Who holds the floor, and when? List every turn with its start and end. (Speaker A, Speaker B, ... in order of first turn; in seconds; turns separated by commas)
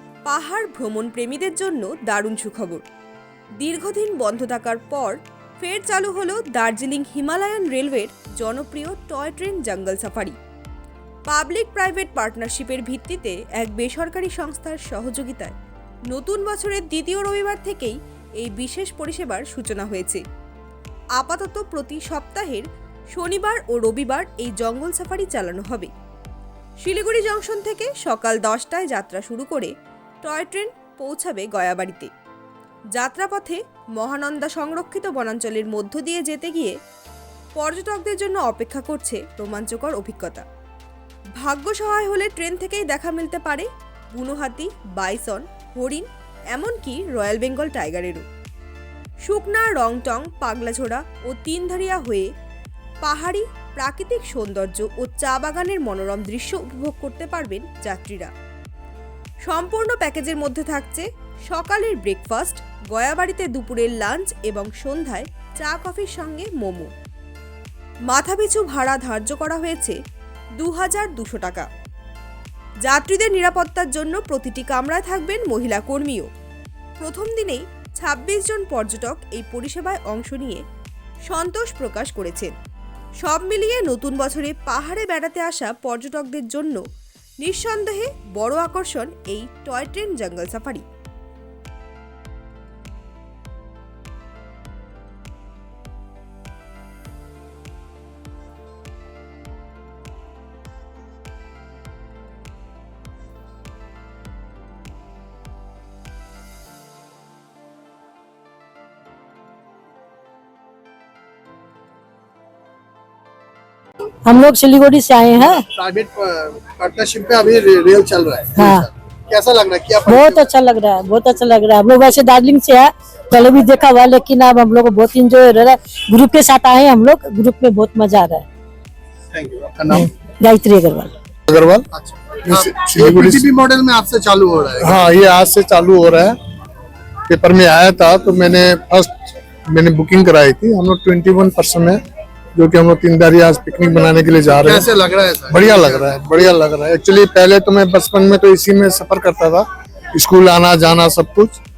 Speaker A: 0.2-2.8, Speaker A: 3.6-10.3, Speaker A: 11.3-15.5, Speaker A: 16.1-20.2, Speaker A: 21.1-25.9, Speaker A: 26.8-32.1, Speaker A: 32.9-36.7, Speaker A: 37.5-40.4, Speaker A: 41.4-48.2, Speaker A: 49.2-52.3, Speaker A: 53.0-58.3, Speaker A: 59.4-66.9, Speaker A: 68.1-70.0, Speaker A: 70.6-71.7, Speaker A: 72.8-76.3, Speaker A: 77.0-80.6, Speaker A: 81.3-82.5, Speaker A: 83.2-86.8, Speaker A: 87.4-90.8, Speaker B: 114.2-115.7, Speaker C: 115.4-120.5, Speaker B: 118.5-118.9, Speaker B: 120.1-128.4, Speaker C: 129.3-130.1, Speaker B: 129.9-131.1, Speaker D: 131.5-131.9, Speaker C: 131.9-135.0, Speaker D: 132.4-133.5, Speaker D: 134.8-136.4, Speaker D: 137.3-142.0, Speaker D: 142.5-144.9, Speaker C: 144.6-146.1, Speaker D: 145.5-151.6